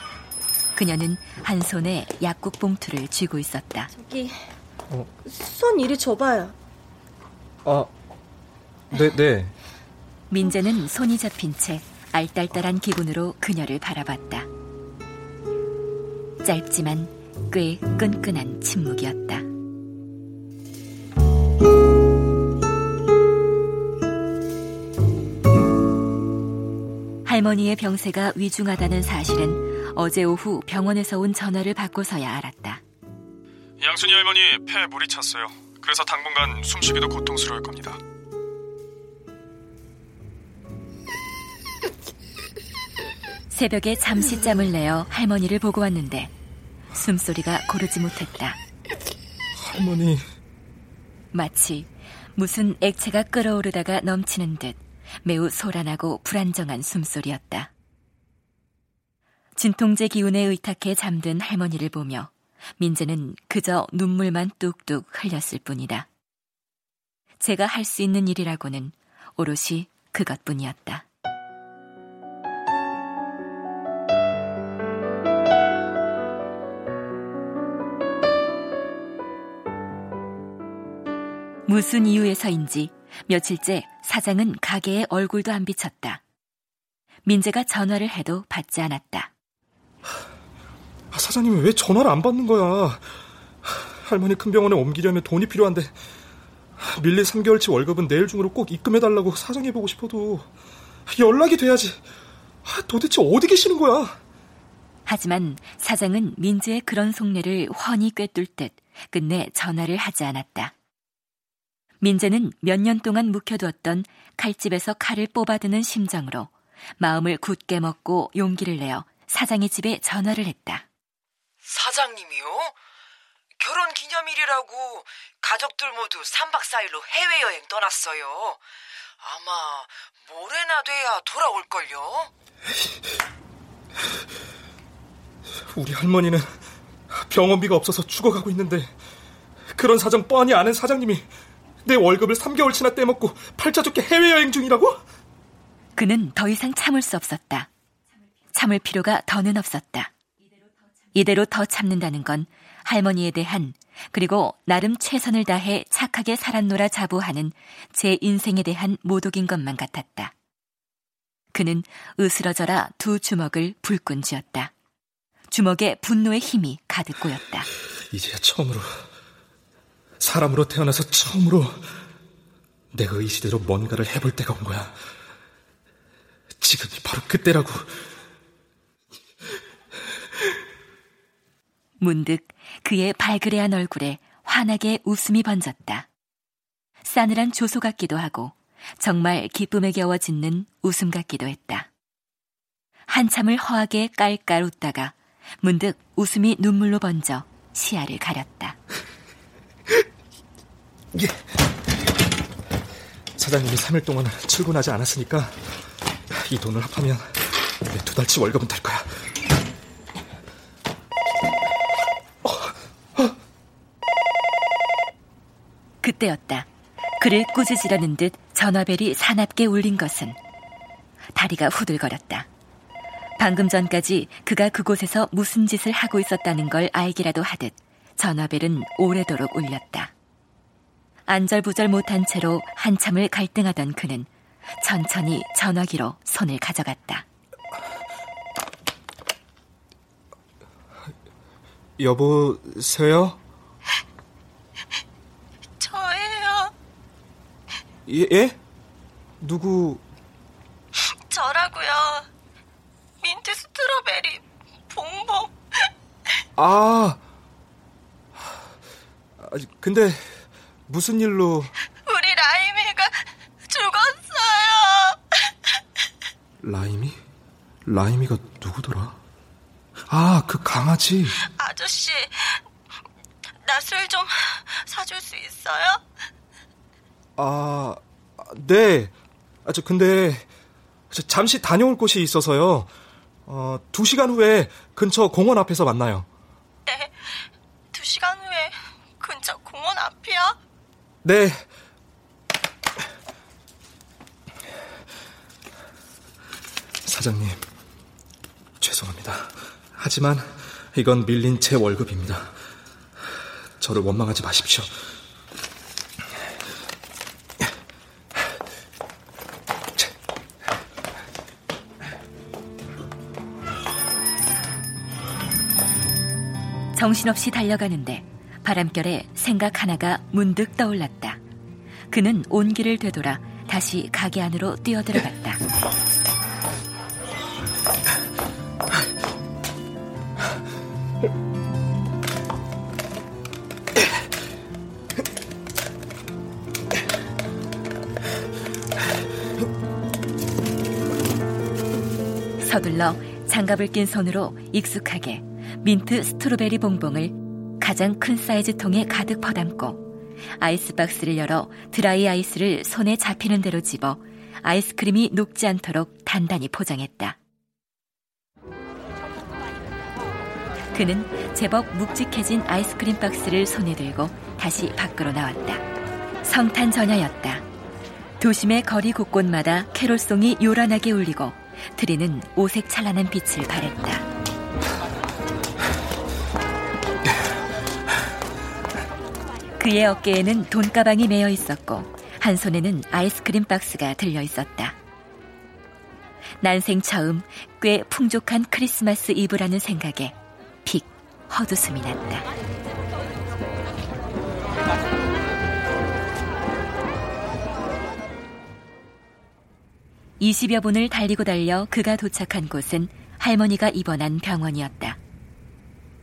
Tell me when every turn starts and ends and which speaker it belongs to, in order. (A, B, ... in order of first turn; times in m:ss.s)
0:00.8-0:03.9 A
0:03.9-0:04.4 B
0:05.2-0:06.6 B
0:07.6-0:07.9 C
0:08.9-0:09.5 C
0:10.3-0:14.5 A
0:16.4-0:19.5 A
0:27.2-0:32.8 A
0:33.8-0:38.0 D
0:43.5-0:46.3 A
0:46.9-0:48.6 A
0:49.6-0:50.2 C
0:51.3-0:57.7 A
0:59.6-1:06.1 A
1:07.4-1:11.1 A
1:21.7-1:26.2 A
1:27.2-1:29.3 A
1:31.1-1:33.1 C
1:33.6-1:35.9 C
1:36.8-1:40.5 C
1:41.1-1:42.0 C
1:42.6-1:44.2 C
1:45.1-1:50.7 A
1:52.0-2:00.8 A
2:01.6-2:02.7 E
2:03.6-2:08.6 E
2:09.2-2:12.3 E
2:15.5-2:16.6 C
2:17.1-2:18.9 C
2:19.7-2:21.3 C
2:21.8-2:25.0 C
2:26.0-2:27.7 A
2:28.5-2:30.1 A
2:31.1-2:40.3 A
2:41.5-2:44.7 A
2:45.5-2:47.7 A
2:48.1-2:49.0 C
2:50.2-2:52.0 C
2:52.9-2:55.0 C
2:56.6-2:58.1 C
3:02.0-3:06.1 A
3:07.0-3:11.9 A
3:13.1-3:18.8 A
3:21.1-3:21.5 C
3:23.4-3:25.7 C
3:26.3-3:29.2 C
3:32.4-3:33.4 C
3:36.0-3:36.7 A
3:37.2-3:40.4 A
3:41.4-3:42.5 A
3:43.4-3:50.1 A
3:51.3-3:54.3 A
3:54.8-3:57.2 A
4:02.0-4:03.4 C
4:05.8-4:06.7 B
4:08.1-4:08.6 C
4:09.4-4:10.0 C
4:11.0-4:12.3 B
4:13.2-4:15.9 B
4:16.6-4:17.2 C
4:18.4-4:18.6 C
4:19.4-4:21.7 C
4:22.0-4:25.4 B
4:26.6-4:27.2 C
4:27.9-4:29.2 C
4:30.1-4:31.4 C
4:31.5-4:32.6 B
4:33.6-4:36.0 B
4:37.4-4:39.1 C
4:39.6-4:40.5 C
4:41.1-4:42.9 C
4:43.5-4:46.3 C
4:46.9-4:50.6 B
4:51.2-4:51.7 C
4:57.0-4:57.6 C
4:58.8-5:02.5 C
5:03.8-5:05.0 C
5:17.0-5:21.4 A
5:22.1-5:25.6 A
5:42.6-5:50.0 A
5:50.6-5:57.4 A
6:00.9-6:05.8 A
6:06.4-6:07.6 A
6:08.4-6:14.3 A
6:19.8-6:25.0 A
6:26.6-6:32.5 A
6:40.4-6:45.2 A